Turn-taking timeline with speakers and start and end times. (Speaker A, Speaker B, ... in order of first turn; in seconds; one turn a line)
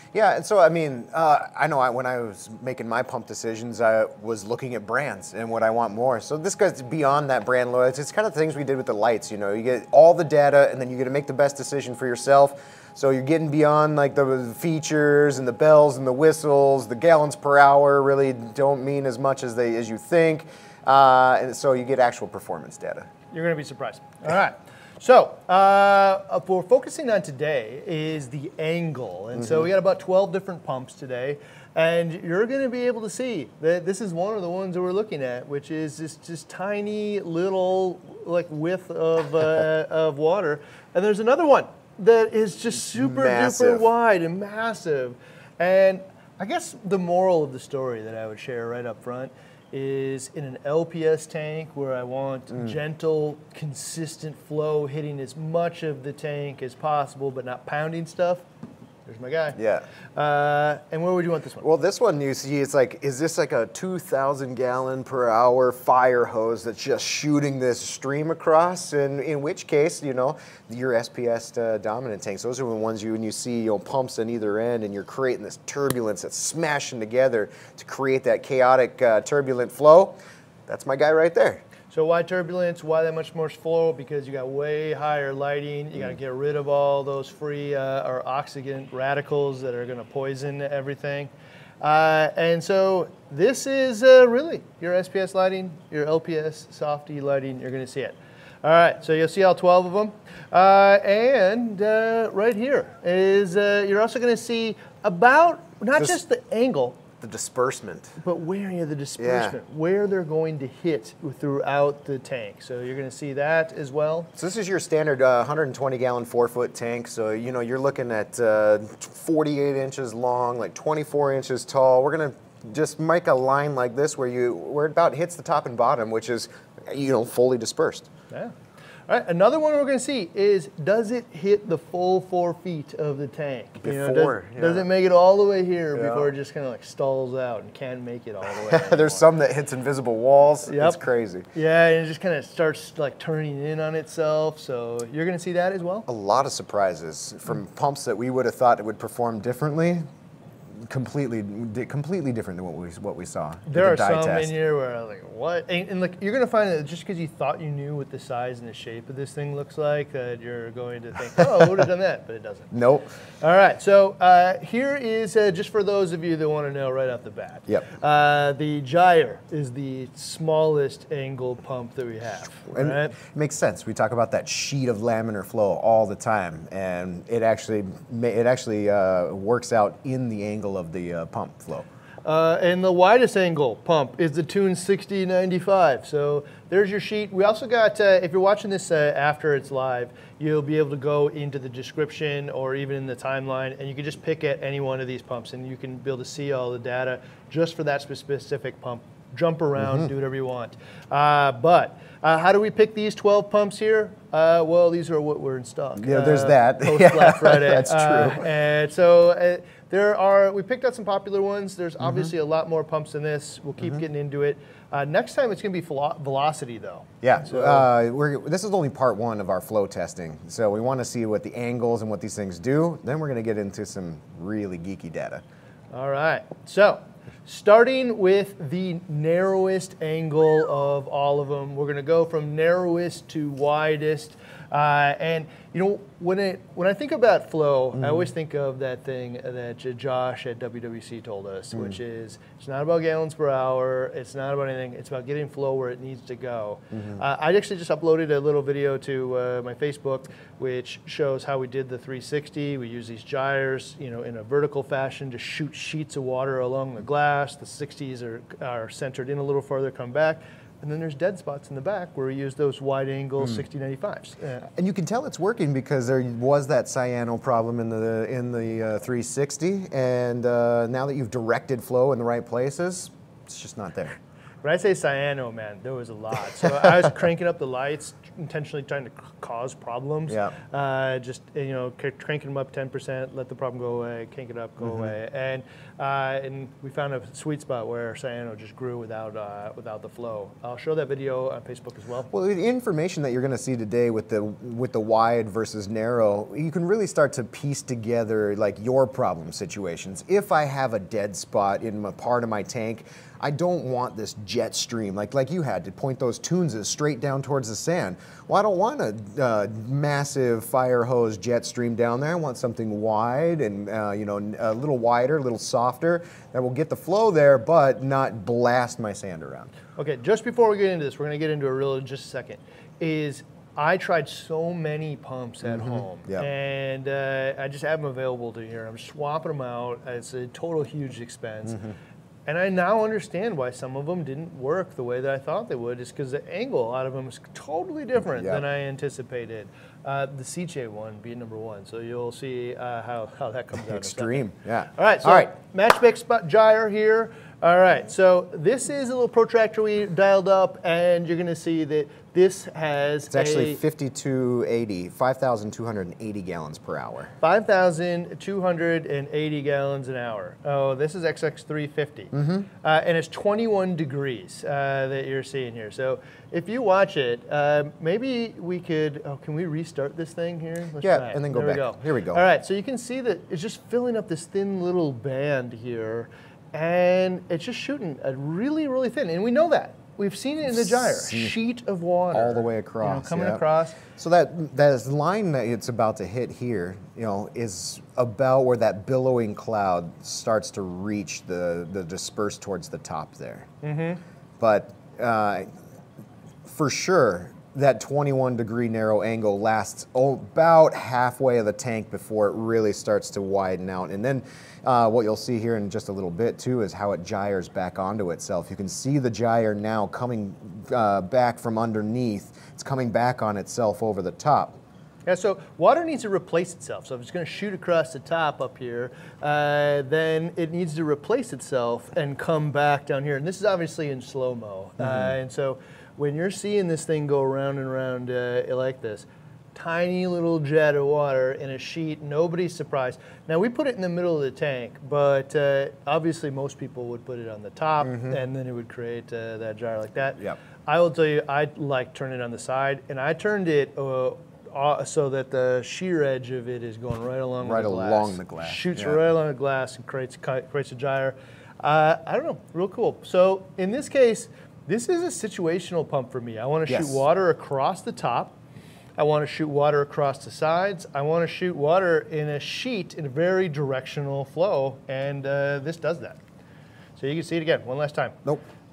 Speaker A: 0.1-23.1
Speaker B: 23.3-58.4
Speaker A: 29.4-29.7
Speaker A: 42.9-43.9
Speaker B: 59.0-59.6
Speaker A: 59.5-59.9
Speaker B: 60.1-61.7
Speaker A: 61.6-80.1
Speaker A: 80.7-81.6
Speaker B: 81.9-107.0
Speaker A: 107.2-108.2
Speaker B: 108.2-114.3
Speaker A: 109.2-109.6
Speaker A: 114.3-128.1
Speaker B: 129.1-139.2
Speaker A: 133.8-134.8
Speaker A: 135.9-136.3
Speaker A: 138.5-141.5
Speaker B: 140.7-141.0
Speaker B: 141.5-146.1
Speaker A: 146.1-150.0
Speaker A: 150.7-154.5
Speaker B: 153.7-162.7
Speaker A: 161.4-161.8
Speaker A: 162.7-163.1
Speaker B: 163.4-173.2
Speaker A: 172.7-181.9
Speaker B: 182.2-217.9
Speaker A: 199.8-200.1
Speaker A: 206.0-208.5
Speaker A: 212.0-212.3
Speaker A: 217.2-225.4
Speaker B: 225.9-264.7
Speaker A: 237.9-238.3
Speaker A: 246.9-247.2
Speaker A: 264.7-274.2
Speaker B: 274.6-292.3
Speaker A: 280.3-280.5
Speaker A: 284.9-285.1
Speaker A: 292.3-319.7
Speaker B: 320.0-331.9
Speaker A: 325.6-326.5
Speaker A: 331.7-331.9
Speaker B: 332.4-353.8
Speaker A: 338.3-338.6
Speaker A: 343.8-345.5
Speaker A: 353.3-357.3
Speaker B: 357.4-384.0
Speaker A: 362.3-362.6
Speaker A: 371.0-372.4
Speaker A: 380.7-381.5
Speaker A: 382.3-393.7
Speaker B: 393.8-394.2
Speaker A: 394.6-395.6
Speaker A: 396.6-414.8
Speaker B: 415.2-458.5
Speaker A: 425.0-425.3
Speaker A: 438.0-438.4
Speaker A: 447.6-449.2
Speaker A: 456.9-457.2
Speaker B: 459.2-466.4
Speaker B: 467.2-468.3